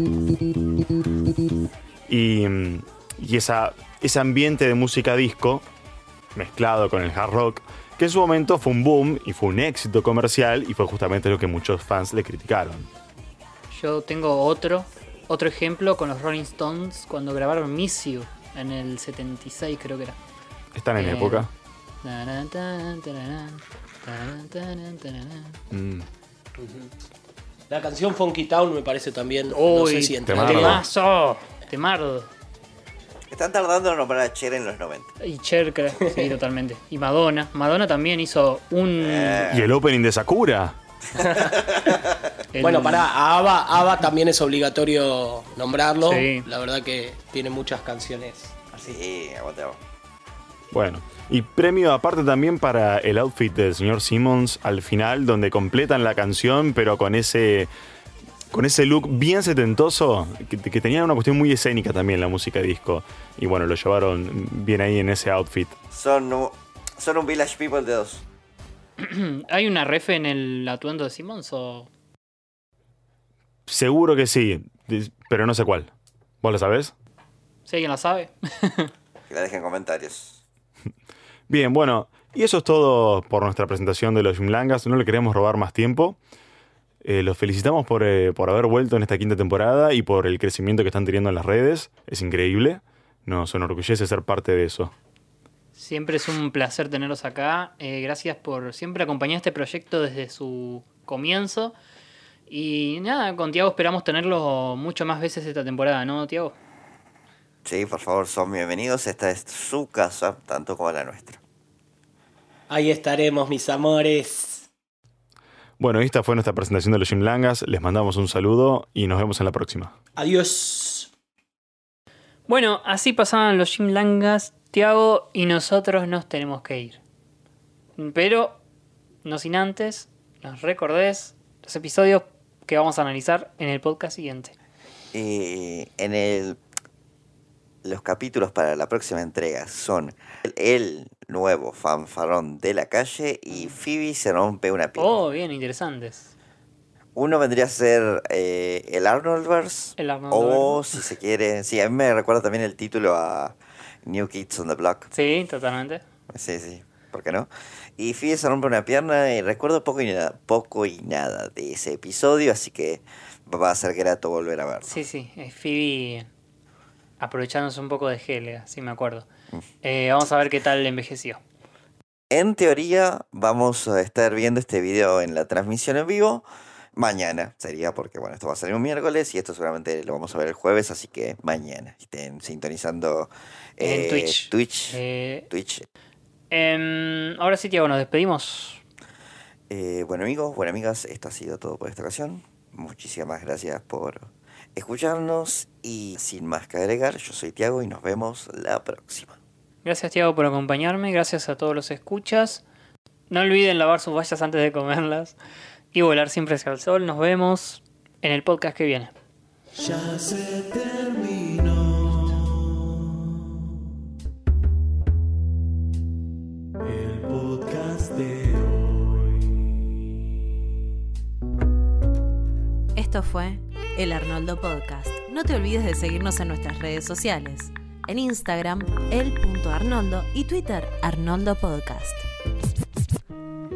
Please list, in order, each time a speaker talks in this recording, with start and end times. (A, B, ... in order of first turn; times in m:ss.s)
0:02.1-0:05.6 A
0:06.4-0:12.9 A
0:13.7-0:20.2 B
0:20.7-0:21.5 A
0:21.0-0:21.5 B
0:22.0-0:25.6 B
0:25.7-0:26.1 A
0:27.7-0:30.8 C
0:29.5-0:32.3 B
0:30.3-0:30.8 A
0:33.3-0:35.1 D
0:35.2-0:39.5 B
0:39.0-0:39.7 D
0:39.5-0:40.8 A
0:41.4-0:42.2 D
0:42.5-0:43.1 B
0:42.6-0:49.0 C
0:46.1-0:46.4 B
0:48.8-0:49.8 D
0:50.7-0:57.7 A
0:58.5-1:05.8 A
1:05.9-1:08.2 D
1:09.0-1:11.9 B
1:13.7-1:15.9 A
1:16.4-1:16.9 A
1:17.7-1:18.9 B
1:19.3-1:20.4 D
1:21.5-1:26.2 A
1:27.0-1:34.9 A
1:35.8-1:41.8 B
1:42.5-1:46.6 B
1:47.6-1:51.4 D
1:52.7-1:54.7 C
1:55.8-1:59.9 A
2:00.2-2:01.1 C
2:02.5-2:07.0 B
2:08.0-2:08.6 B
2:09.2-2:14.6 B
2:15.1-2:16.6 D
2:17.8-2:25.2 D
2:25.0-2:26.3 B
2:27.2-2:35.1 D
2:30.0-2:31.0 B
2:35.1-2:36.0 B
2:36.3-2:45.0 D
2:44.8-2:46.3 B
2:47.2-2:49.3 B
2:49.8-2:51.4 B
2:52.3-3:05.9 D
3:03.8-3:05.5 B
3:06.5-3:08.8 B
3:09.7-3:19.4 D
3:19.8-3:22.6 B
3:23.3-3:25.4 B
3:25.9-3:29.1 B
3:29.8-3:33.3 E
3:36.8-3:39.6 E
3:43.0-3:52.2 F